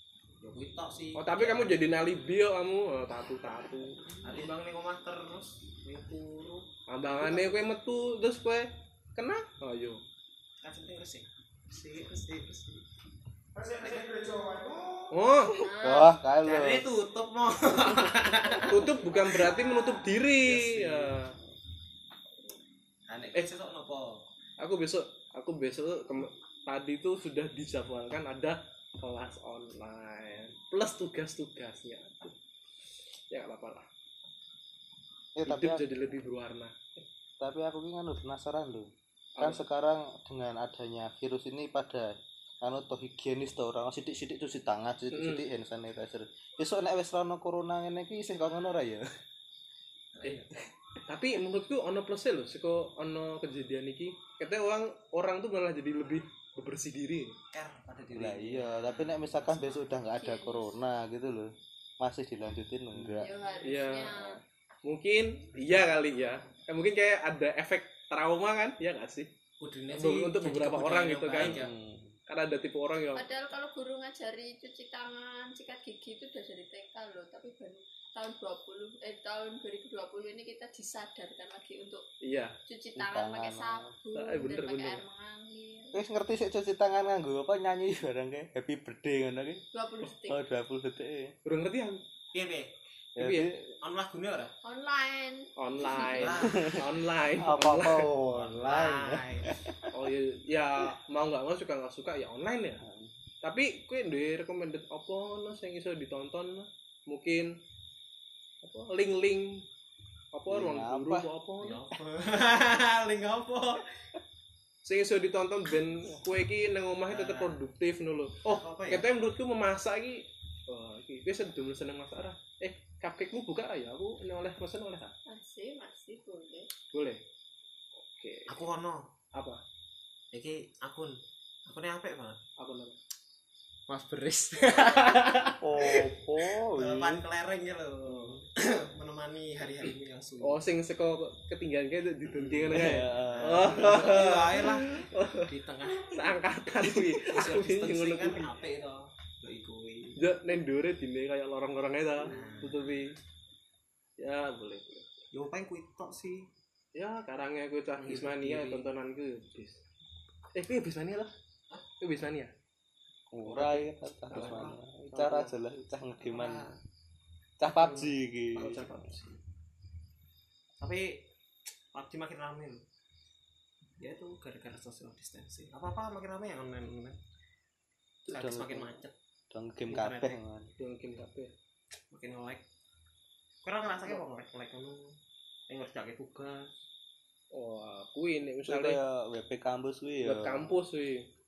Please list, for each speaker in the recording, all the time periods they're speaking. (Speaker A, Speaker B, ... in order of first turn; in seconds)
Speaker A: 0.4-1.9, 4.2-7.6, 10.6-12.8, 13.6-14.6, 16.4-21.2, 23.1-24.3, 50.1-50.6, 57.5-60.0, 69.6-71.7, 92.3-92.7, 93.8-94.5, 96.0-96.6, 98.3-99.5, 111.6-113.8, 117.1-117.6, 118.5-119.1, 128.5-129.1, 130.3-132.4, 133.9-140.6, 142.4-146.3, 147.2-150.2, 152.2-153.0, 155.3-156.5, 158.0-158.9, 164.3-164.8, 166.2-166.8, 167.6-168.2, 170.8-171.3, 171.9-172.8, 174.0-177.2, 178.3-179.1, 179.9-180.4, 182.1-182.6, 183.6-185.2, 185.7-186.7
Speaker B: 1.1-4.0, 6.9-10.0, 15.1-15.6, 18.7-21.4, 24.6-32.4, 33.3-33.9, 35.5-37.0, 45.1-45.4, 51.1-57.4, 63.6-69.3, 69.9-71.6, 72.3-73.3, 82.2-82.6, 84.1-85.0, 91.5-92.0, 93.2-93.7, 95.6-98.1, 99.9-102.8, 103.4-107.6, 108.6-109.7, 110.3-111.8, 114.8-125.2, 126.9-127.2, 128.0-128.6, 129.3-129.6, 132.6-133.0, 140.4-148.5, 150.2-153.2, 154.2-155.1, 156.9-159.8, 160.5-161.3, 162.0-162.5, 163.4-165.6, 168.6-169.4, 180.8-181.5, 187.5-189.0, 190.2-191.3
Speaker C: 15.5-16.1, 60.1-60.8, 63.2-64.4, 73.1-82.1, 82.7-86.0, 89.7-90.4, 94.6-96.5, 125.3-126.7
Speaker D: 15.8-16.9, 35.4-35.8, 37.4-42.1, 42.6-49.1, 58.1-63.3, 71.4-72.2, 83.0-83.9, 85.9-89.6, 90.3-91.3, 93.2-93.5, 96.3-99.9, 102.8-103.1, 110.5-111.3, 135.6-137.2, 142.7-143.9, 163.3-166.7, 167.6-168.9, 178.2-178.9, 179.5-180.7, 188.7-190.8